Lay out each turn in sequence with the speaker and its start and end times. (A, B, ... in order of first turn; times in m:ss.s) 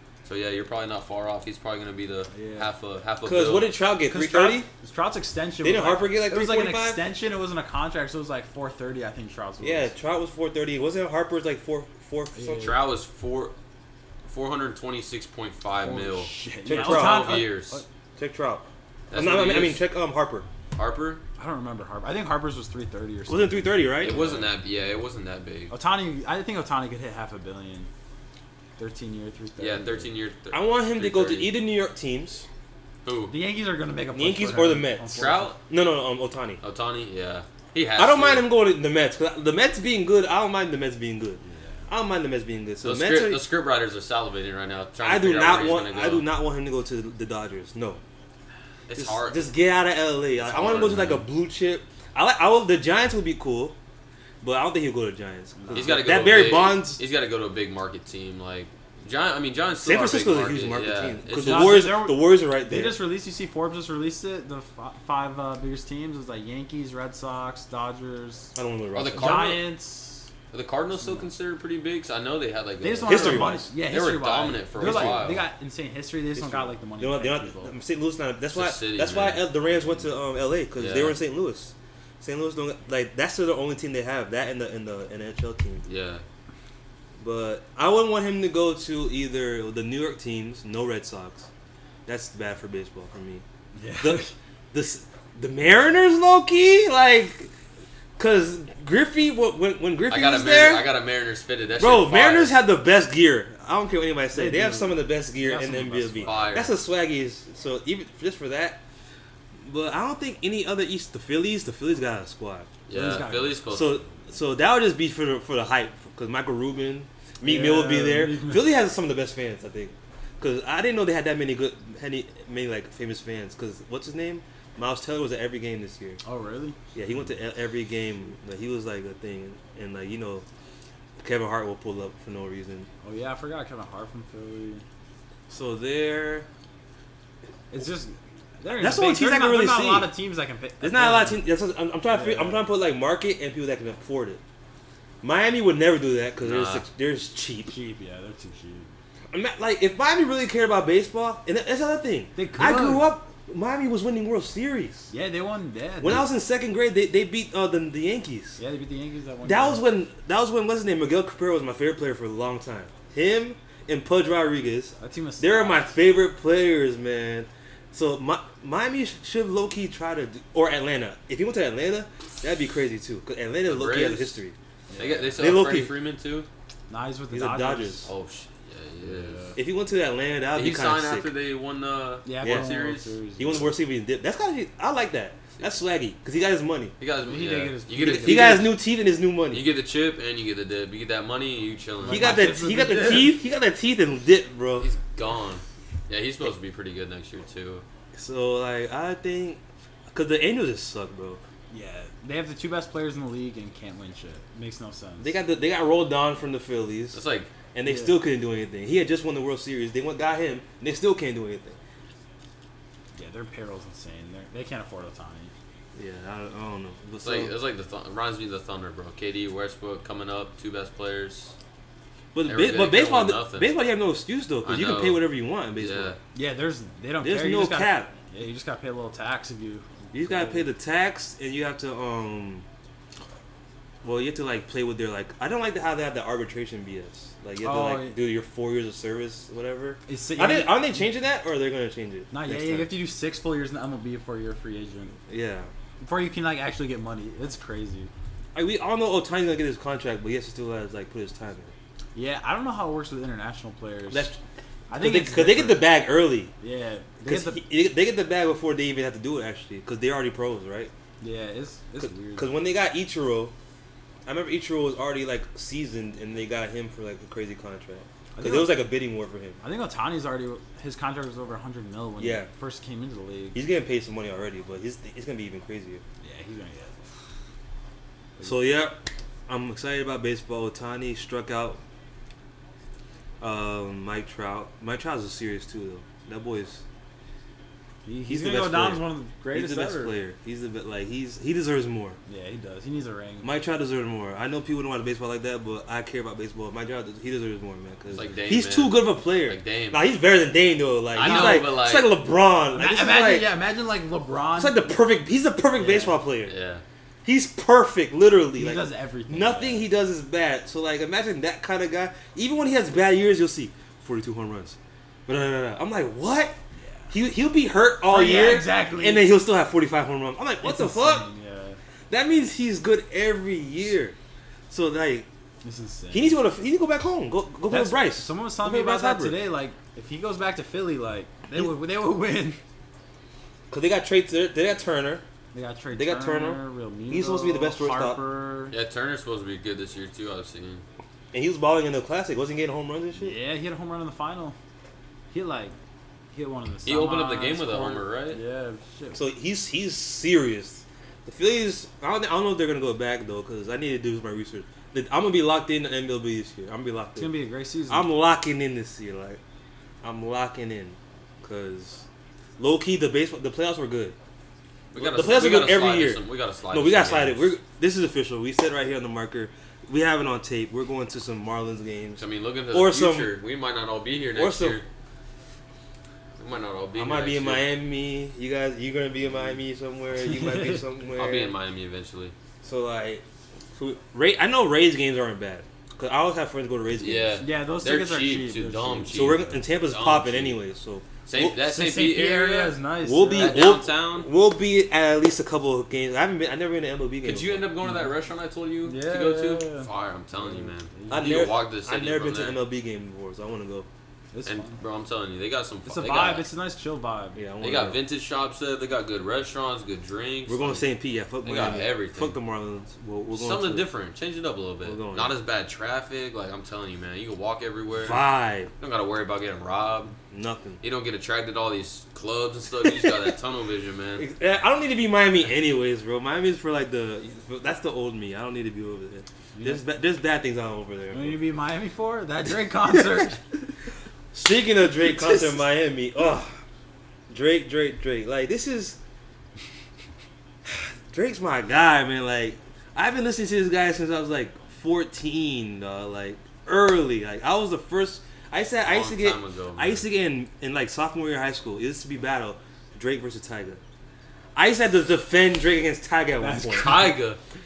0:00.2-0:03.7 A
0:02.3-0:02.7 B
0:03.2-0:04.7 C
0:04.1-0:09.9 B
0:05.6-0:07.0 C
0:09.6-0:12.8 C
0:12.4-0:12.8 B
0:12.6-0:13.5 A
0:14.3-0:17.8 A
0:15.8-0:17.8 B
0:16.6-0:17.5 C
0:18.2-0:20.4 C
0:19.1-0:19.8 A
0:20.7-0:21.2 A
0:21.4-0:24.5 B
0:23.3-0:24.2 C
0:24.0-0:25.7 A
0:25.7-0:27.9 B
0:28.8-0:30.1 B
0:29.6-0:31.5 A
0:30.5-0:32.4 C
0:33.0-0:33.3 A
0:33.3-0:35.5 B
0:34.1-0:36.6 C
0:35.1-0:35.6 A
0:36.6-0:38.5 A
0:38.0-0:43.4 C
0:41.4-0:41.9 B
0:42.8-0:46.3 A
0:45.0-0:48.0 C
0:48.9-0:49.5 A
0:48.9-0:53.8 C
0:50.4-0:51.2 A
0:54.4-0:57.0 C
0:55.6-0:56.0 B
0:55.7-1:01.9 A
0:59.8-1:03.0 C
1:01.3-1:08.5 B
1:08.5-1:09.5 C
1:08.9-1:09.6 A
1:09.1-1:10.3 B
1:10.5-1:15.4 A
1:11.0-1:11.3 B
1:12.8-1:17.7 B
1:13.0-1:13.7 C
1:14.8-1:15.3 C
1:16.4-1:25.8 C
1:18.5-1:19.4 A
1:20.8-1:21.2 A
1:25.8-1:26.2 A
1:27.2-1:31.5 C
1:32.1-1:33.4 C
1:33.8-1:34.3 B
1:34.0-1:37.5 C
1:38.2-1:40.9 C
1:40.1-1:42.6 A
1:41.8-1:48.8 C
1:44.3-1:46.5 B
1:46.2-1:46.8 A
1:49.6-1:52.7 C
1:52.9-1:54.0 A
1:52.9-1:53.8 B
1:53.7-2:06.2 C
1:57.4-1:58.7 B
2:06.2-2:06.8 B
2:06.9-2:10.4 C
2:11.2-2:12.9 C
2:13.0-2:14.8 B
2:15.5-2:16.5 C
2:17.7-2:21.4 B
2:18.7-2:20.1 C
2:20.8-2:24.4 C
2:22.1-2:22.6 B
2:25.2-2:27.7 C
2:26.4-2:26.8 A
2:27.7-2:28.9 B
2:29.3-2:35.1 C
2:32.4-2:33.1 B
2:35.1-2:36.3 B
2:36.0-2:38.6 C
2:38.6-2:39.8 B
2:39.4-2:54.5 C
2:45.0-2:45.9 B
2:53.6-2:54.4 A
2:54.9-2:55.5 B
2:55.0-2:56.5 A
2:55.4-2:55.9 C
2:56.9-2:58.1 B
2:57.3-2:58.1 C
2:58.1-2:59.5 A
2:59.0-2:59.6 B
2:59.6-3:01.3 C
3:00.5-3:03.1 A
3:02.2-3:03.8 B
3:02.4-3:02.7 C
3:03.4-3:06.9 C
3:07.0-3:08.7 A
3:07.2-3:08.7 B
3:08.0-3:09.6 C
3:09.5-3:12.4 A
3:12.0-3:13.4 B
3:12.1-3:14.9 C
3:14.8-3:17.8 A
3:18.2-3:19.6 C
3:20.1-3:21.4 C
3:21.7-3:25.3 B
3:25.2-3:27.2 C
3:27.1-3:27.5 A
3:27.7-3:31.8 C
3:27.8-3:28.1 B
3:33.1-3:35.5 B
3:36.0-3:37.5 C
3:37.2-3:41.5 A
3:42.3-3:46.2 C
3:42.4-3:43.7 A
3:44.6-3:45.2 A
3:45.8-3:46.2 A
3:46.3-3:50.6 B
3:47.2-3:48.1 C
3:50.1-3:52.6 C
3:54.0-4:02.9 C
3:57.6-3:58.2 B
4:00.1-4:01.0 B
4:02.3-4:05.2 B
4:05.3-4:05.7 C
4:06.0-4:08.1 B
4:08.5-4:11.7 C
4:12.1-4:14.3 B
4:14.1-4:14.4 C
4:14.9-4:15.8 B
4:15.0-4:16.5 C
4:16.6-4:17.6 B
4:17.2-4:20.9 C
4:21.2-4:22.5 B
4:22.0-4:23.5 C
4:24.2-4:29.6 C
4:28.4-4:28.8 B
4:29.6-4:33.6 B
4:32.2-4:32.5 C
4:33.5-4:36.0 C
4:36.2-4:37.0 B
4:38.4-4:41.8 C
4:43.4-4:46.8 C
4:48.0-4:50.1 B
4:48.3-4:52.2 C
4:52.3-4:53.5 B
4:53.4-5:03.5 C
4:58.1-5:00.0 A
5:01.1-5:02.1 A
5:01.2-5:01.7 B
5:02.7-5:05.0 B
5:04.6-5:06.5 C
5:05.8-5:06.2 B
5:06.5-5:06.8 A
5:07.2-5:14.8 C
5:08.6-5:09.9 B
5:15.3-5:16.6 C
5:16.8-5:17.1 B
5:17.1-5:21.2 C
5:18.0-5:19.3 B
5:20.6-5:21.8 B
5:22.1-5:24.1 C
5:24.7-5:25.3 C
5:25.6-5:26.4 B
5:26.1-5:29.4 C
5:27.7-5:32.6 B
5:33.7-5:35.2 C
5:35.5-5:38.7 B
5:35.9-5:38.2 C
5:38.7-5:40.8 A
5:41.3-5:43.3 C
5:43.2-5:44.6 B
5:45.3-5:45.7 B
5:46.3-5:49.2 B
5:46.8-5:48.4 A
5:49.1-5:57.3 C
5:57.2-5:58.1 B
5:57.9-5:59.4 C
6:00.0-6:02.0 C
6:02.6-6:04.2 C
6:04.9-6:07.5 A
6:05.0-6:13.3 C
6:12.2-6:14.8 A
6:14.3-6:14.8 C
6:16.4-6:17.7 A
6:17.0-6:21.5 C
6:20.2-6:20.8 B
6:21.2-6:22.3 A
6:22.6-6:23.2 C
6:23.7-6:27.4 C
6:26.9-6:30.6 A
6:27.4-6:29.3 B
6:29.1-6:31.6 C
6:31.2-6:32.8 A
6:31.6-6:33.6 B
6:33.0-6:37.7 C
6:33.4-6:34.3 A
6:37.2-6:42.6 A
6:37.8-6:38.1 B
6:38.8-6:41.4 B
6:41.1-6:43.9 C
6:44.3-6:44.8 B
6:44.4-6:46.5 A
6:45.8-6:47.4 B
6:47.4-6:48.0 C
6:47.6-6:50.9 A
6:50.5-6:53.8 C
6:51.4-6:52.4 A
6:53.3-6:58.2 A
6:54.8-6:55.4 C
6:58.0-6:58.7 C
6:58.8-7:00.1 A
7:00.3-7:00.8 C
7:00.8-7:04.2 A
7:04.2-7:11.4 C
7:09.5-7:09.8 B
7:11.1-7:13.7 B
7:14.3-7:16.6 C
7:15.0-7:15.6 B
7:17.3-7:19.0 C
7:20.6-7:33.8 C
7:28.8-7:30.0 A
7:34.6-7:37.1 C
7:36.4-7:37.2 B
7:36.7-7:37.4 A